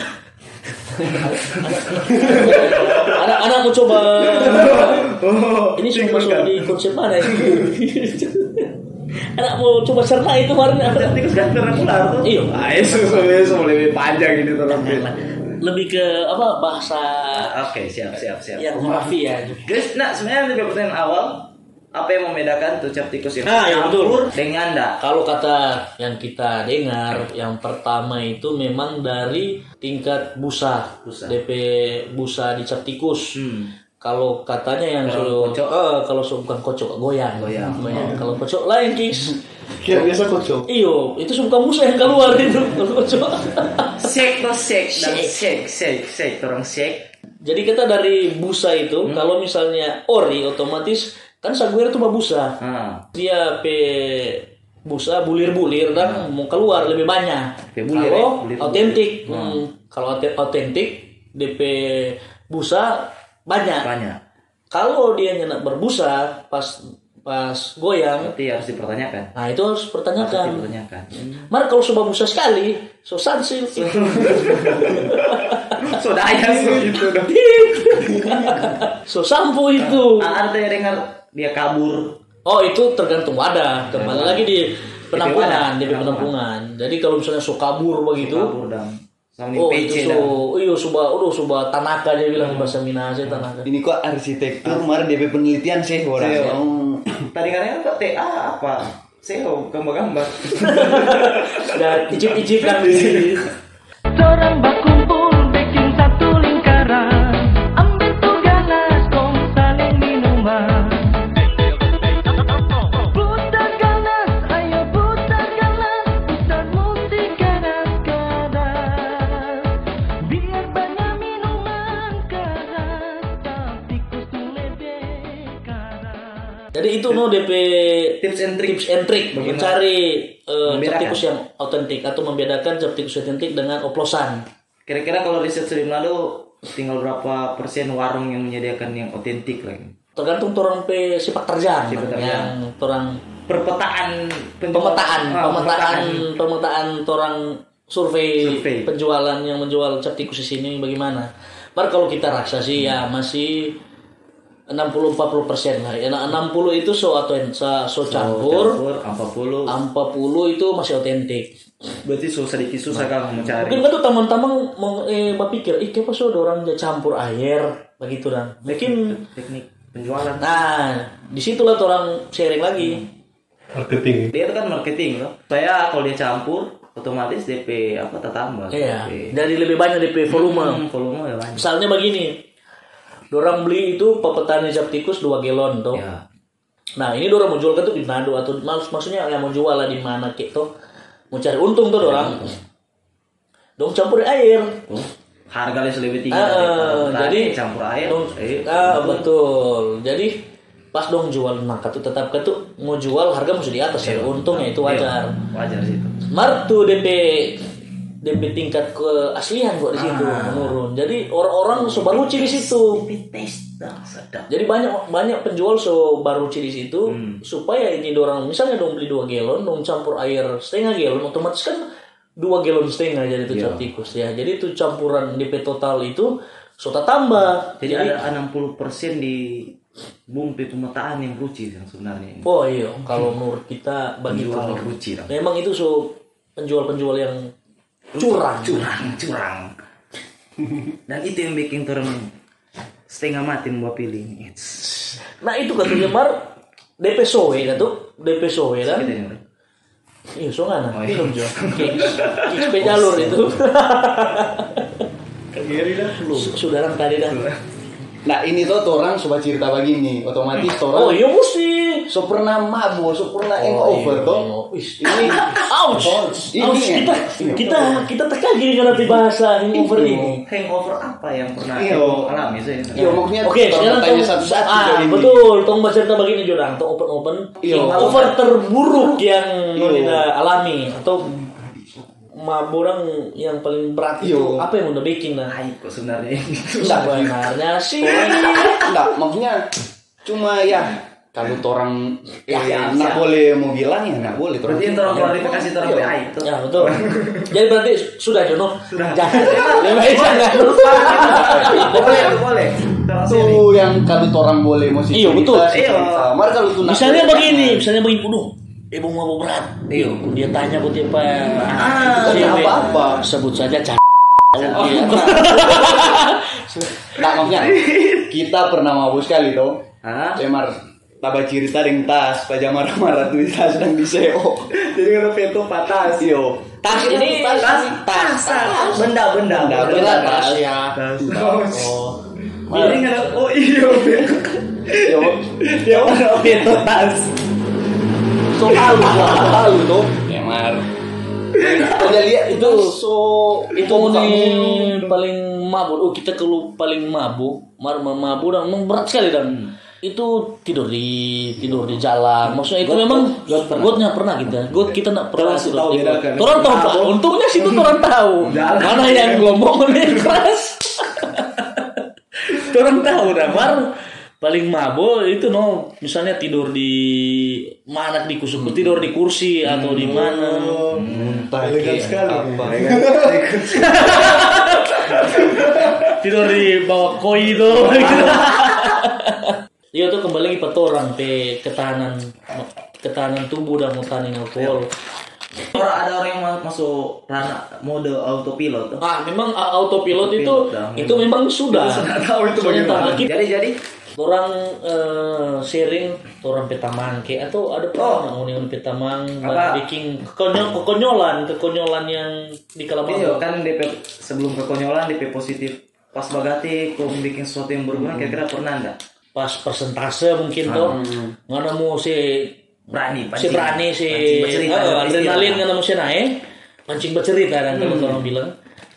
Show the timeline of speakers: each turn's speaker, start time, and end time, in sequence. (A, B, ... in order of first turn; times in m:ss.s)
0:01.0-0:03.2 A
0:01.0-0:05.1 B
0:02.1-0:02.4 C
0:04.0-0:07.7 A
0:05.8-0:11.2 B
0:10.8-0:15.1 A
0:12.2-0:12.6 B
0:14.6-0:17.5 B
0:17.3-0:19.1 A
0:18.6-0:19.6 B
0:19.6-0:25.0 A
0:23.5-0:24.3 B
0:25.0-0:33.4 B
0:31.0-0:31.4 A
0:33.4-0:33.7 A
0:34.0-0:39.4 B
0:35.0-0:35.7 A
0:37.4-0:38.3 A
0:37.9-0:38.2 C
0:39.8-0:40.7 C
0:40.7-0:44.0 B
0:44.0-0:47.1 A
0:44.9-0:45.4 B
0:47.4-0:52.6 B
0:49.0-0:49.3 A
0:52.6-0:53.0 A
0:53.1-1:03.9 B
0:56.0-0:56.3 A
0:57.7-0:59.6 A
1:03.8-1:04.2 A
1:04.7-1:08.3 B
1:08.2-1:09.3 A
1:09.4-1:10.7 B
1:10.2-1:11.5 A
1:11.5-1:16.0 B
1:13.7-1:18.8 A
1:16.8-1:20.3 B
1:19.8-1:22.2 A
1:22.5-1:28.5 B
1:23.9-1:24.5 A
1:25.1-1:26.3 A
1:28.2-1:30.3 A
1:29.6-1:33.7 B
1:32.4-1:33.5 A
1:33.6-1:37.1 D
1:34.6-1:35.0 A
1:36.2-1:36.6 A
1:37.2-1:43.5 A
1:40.6-1:43.5 B
1:44.1-1:51.4 E
1:52.9-2:06.6 E
2:06.7-2:14.4 B
2:08.2-2:09.8 A
2:10.6-2:11.2 A
2:14.9-2:19.9 A
2:20.2-2:23.2 B
2:21.9-2:22.5 A
2:23.5-2:26.2 A
2:24.7-2:33.8 B
2:28.4-2:28.9 A
2:34.7-2:38.8 B
2:38.1-2:39.7 A
2:39.7-2:41.5 B
2:42.0-2:43.9 A
2:42.9-2:49.2 B
2:48.7-2:50.6 A
2:50.4-2:53.0 B
2:52.8-2:53.1 A
2:53.8-2:54.3 C
2:54.3-2:59.4 A
2:58.7-3:00.8 B
3:00.3-3:01.6 A
3:01.6-3:02.4 B
3:03.3-3:06.0 B
3:05.9-3:06.2 A
3:07.0-3:10.7 B
3:11.3-3:12.5 B
3:12.0-3:12.6 A
3:13.8-3:14.8 B
3:14.9-3:19.3 A
3:16.3-3:17.6 B
3:18.1-3:20.4 B
3:20.9-3:25.4 B
3:24.0-3:26.2 A
3:26.3-3:27.7 B
3:28.2-3:33.0 B
3:30.0-3:30.8 A
3:31.7-3:34.5 A
3:34.5-3:41.8 B
3:37.1-3:37.4 A
3:42.4-3:48.2 B
3:43.5-3:43.9 A
3:47.8-3:49.8 A
3:50.3-3:52.5 A
3:52.4-3:57.5 B
3:54.3-3:55.3 A
3:58.1-3:59.7 A
3:58.2-3:58.8 B
4:01.1-4:02.3 A
4:03.1-4:05.2 A
4:05.3-4:06.5 B
4:07.0-4:09.1 B
4:08.8-4:09.4 A
4:10.4-4:15.1 B
4:10.9-4:13.6 A
4:15.5-4:16.5 C
4:16.2-4:17.4 B
4:17.2-4:17.6 A
4:18.2-4:21.2 D
4:20.9-4:22.1 B
4:22.1-4:24.5 D
4:23.6-4:30.4 B
4:25.0-4:25.5 D
4:25.9-4:26.5 C
4:26.5-4:28.0 D
4:29.7-4:30.4 D
4:30.4-4:33.3 A
4:31.7-4:32.3 D
4:32.9-4:35.5 D
4:33.4-4:41.5 B
4:37.6-4:38.2 D
4:37.6-4:38.4 A
4:39.7-4:40.3 D
4:42.4-4:45.6 B
4:44.2-4:44.7 D
4:45.5-4:47.3 A
4:46.8-4:48.9 B
4:46.8-4:47.3 D
4:48.1-4:48.9 A
4:48.8-4:49.7 D
4:50.2-4:56.0 D
4:52.5-4:53.3 A
4:54.6-4:57.5 A
4:55.8-5:02.4 B
4:58.9-5:03.7 A
5:01.4-5:02.3 D
5:03.3-5:07.8 D
5:05.1-5:05.7 B
5:05.7-5:06.4 A
5:06.8-5:17.2 B
5:09.9-5:10.2 A
5:11.6-5:13.1 A
5:12.1-5:13.3 D
5:14.6-5:15.8 A
5:14.8-5:16.1 D
5:17.1-5:19.8 D
5:17.2-5:18.3 A
5:20.0-5:20.4 A
5:20.4-5:24.7 D
5:24.7-5:26.3 A
5:26.2-5:30.7 D
5:26.8-5:29.0 B
5:27.6-5:32.0 A
5:29.8-5:31.0 B
5:31.2-5:32.0 D
5:31.7-5:32.2 B
5:32.7-5:37.4 A
5:32.7-5:33.5 B
5:35.0-5:36.5 D
5:38.6-5:39.9 B
5:38.6-5:40.9 D
5:38.8-5:39.2 A
5:41.5-5:45.2 D
5:41.8-5:43.0 B
5:43.8-6:10.8 B
5:52.5-5:54.1 A
5:55.4-6:00.4 A
6:09.6-6:10.3 A
6:10.0-6:13.4 C
6:10.9-6:12.1 A
6:11.1-6:14.1 D
6:12.6-6:14.4 A
6:13.7-6:15.6 B
6:15.1-6:16.0 A
6:16.1-6:24.9 B
6:17.8-6:18.9 A
6:25.7-6:29.0 A
6:29.0-6:33.3 B
6:30.1-6:33.8 A
6:34.2-6:43.4 B
6:38.0-6:38.3 A
6:39.4-6:39.8 A
6:43.1-6:49.0 A
6:49.4-6:52.6 B
6:50.7-6:51.0 A
6:50.8-6:51.3 D
6:52.9-6:55.6 A
6:53.4-6:58.5 B
6:57.7-6:58.2 A